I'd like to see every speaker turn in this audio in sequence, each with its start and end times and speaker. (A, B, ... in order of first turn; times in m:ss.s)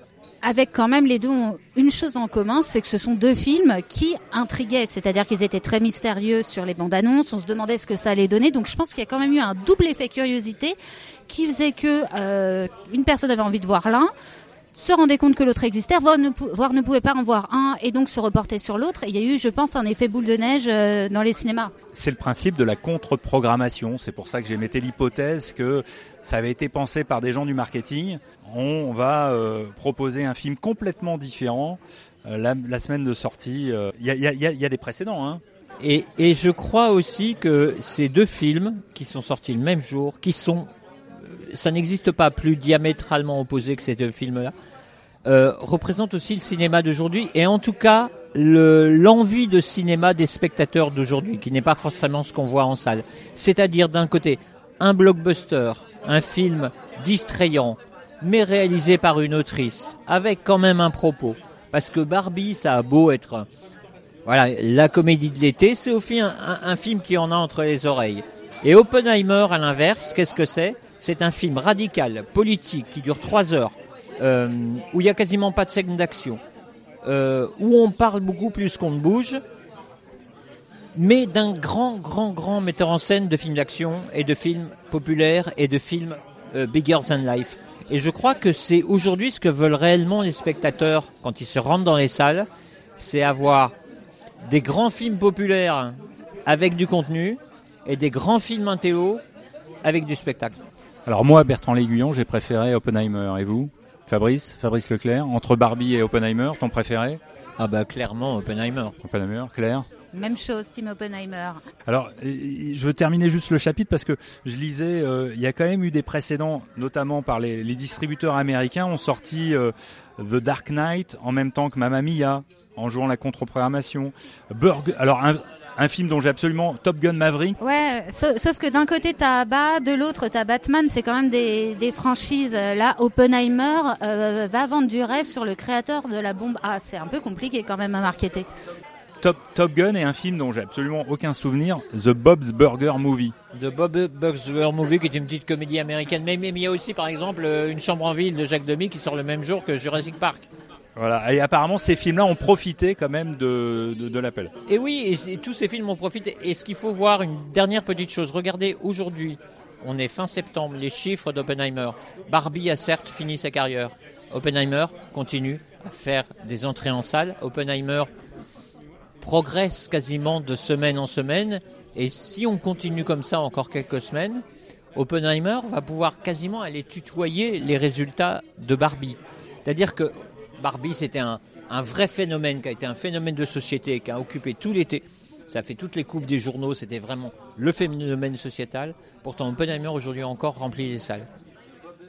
0:00.4-0:10.8 A
0:11.3-0:14.1 A
0:14.7-0:21.7 A
0:21.9-0:35.4 B
0:35.8-0:40.7 C
0:41.2-0:44.5 C
0:45.3-1:03.5 C
1:04.3-1:16.4 C
1:17.0-1:19.4 C
1:21.0-1:33.8 C
1:34.4-1:39.2 C
1:39.8-1:40.6 C
1:41.1-1:47.2 B
1:47.6-1:49.0 C
1:49.0-1:49.9 B
1:50.1-1:51.6 A
1:51.9-2:07.6 B
2:07.6-2:18.5 A
2:19.2-2:23.3 B
2:23.5-2:30.5 C
2:31.0-2:34.5 B
2:34.7-2:48.1 C
2:49.2-2:54.4 C
2:55.0-3:11.3 C